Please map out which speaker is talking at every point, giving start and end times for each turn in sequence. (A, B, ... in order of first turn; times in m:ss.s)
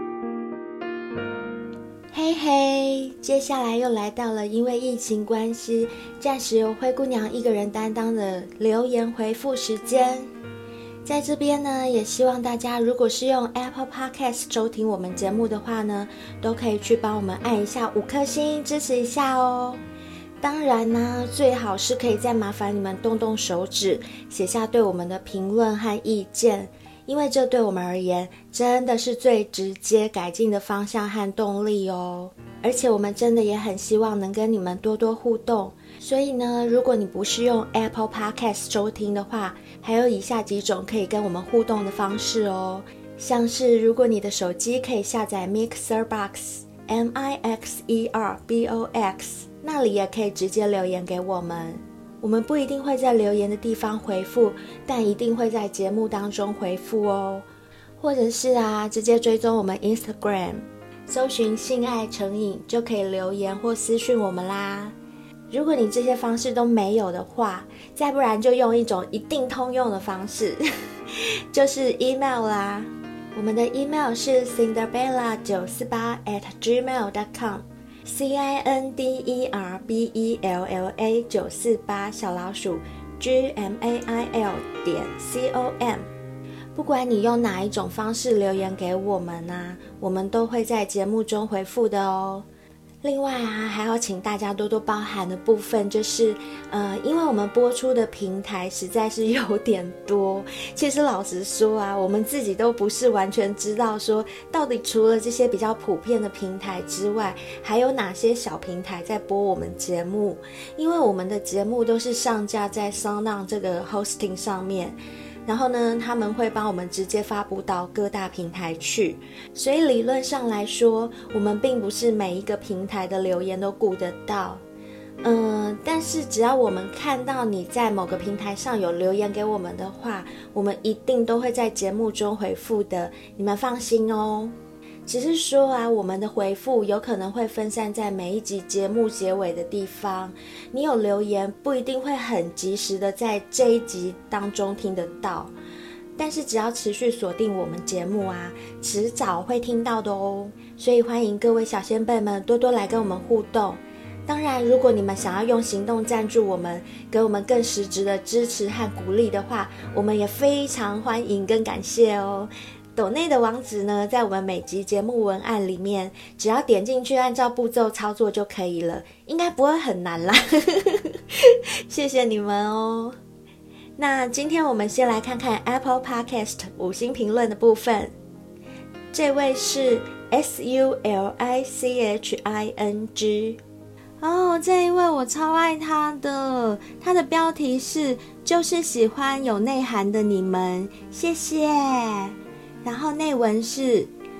0:02.1-0:10.3 A
0:11.0-0:19.8 A
0:20.4-0:57.4 A
0:58.0-1:04.9 A
1:05.5-1:26.1 A
1:26.7-1:32.4 A
1:33.0-2:04.6 A
2:05.2-2:25.5 A
2:26.2-2:53.2 A
2:54.0-2:58.1 A
2:59.1-3:03.6 A
3:04.2-3:14.1 A